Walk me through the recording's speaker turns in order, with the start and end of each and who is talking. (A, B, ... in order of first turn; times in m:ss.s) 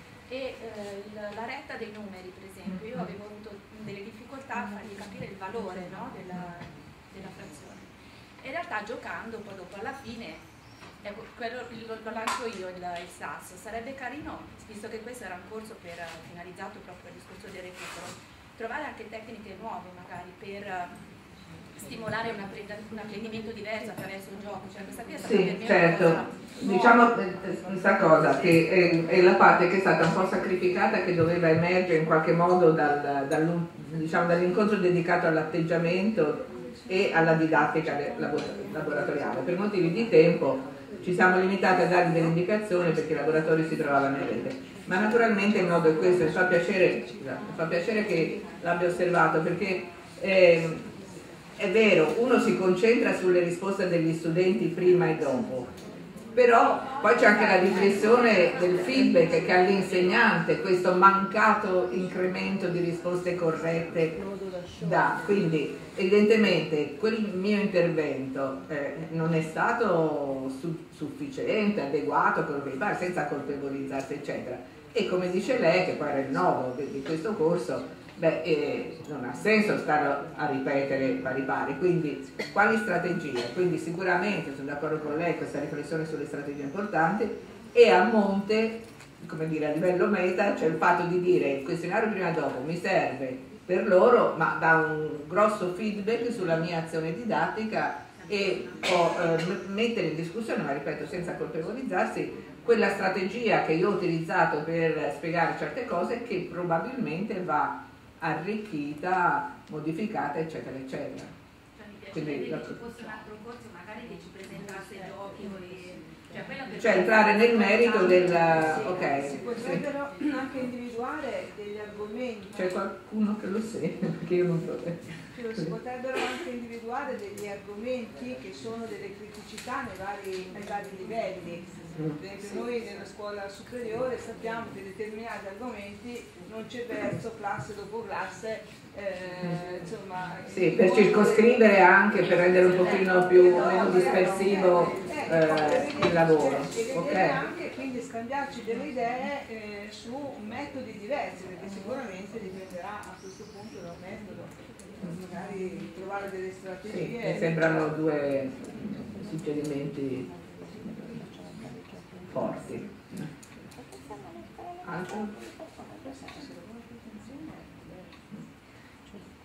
0:00.3-0:10.4 A
0:02.7-0:03.1 B
0:11.0-0:21.0 A
0:21.8-0:27.1 A
0:25.2-0:50.9 B
0:51.6-0:55.7 B
0:56.3-1:04.2 B
0:56.9-1:00.0 A
1:04.8-1:51.3 B
1:38.2-1:38.8 A
1:51.7-1:59.3 A
1:52.1-1:52.8 B
1:56.8-1:59.8 B
1:59.3-2:02.5 C
2:02.5-2:05.7 B
2:05.4-2:11.7 C
2:12.0-2:12.2 B
2:12.2-2:21.6 C
2:20.5-2:27.5 B
2:22.9-2:34.5 C
2:35.0-2:37.6 C
2:36.8-2:41.7 B
2:42.3-2:43.3 B
2:44.8-2:45.3 B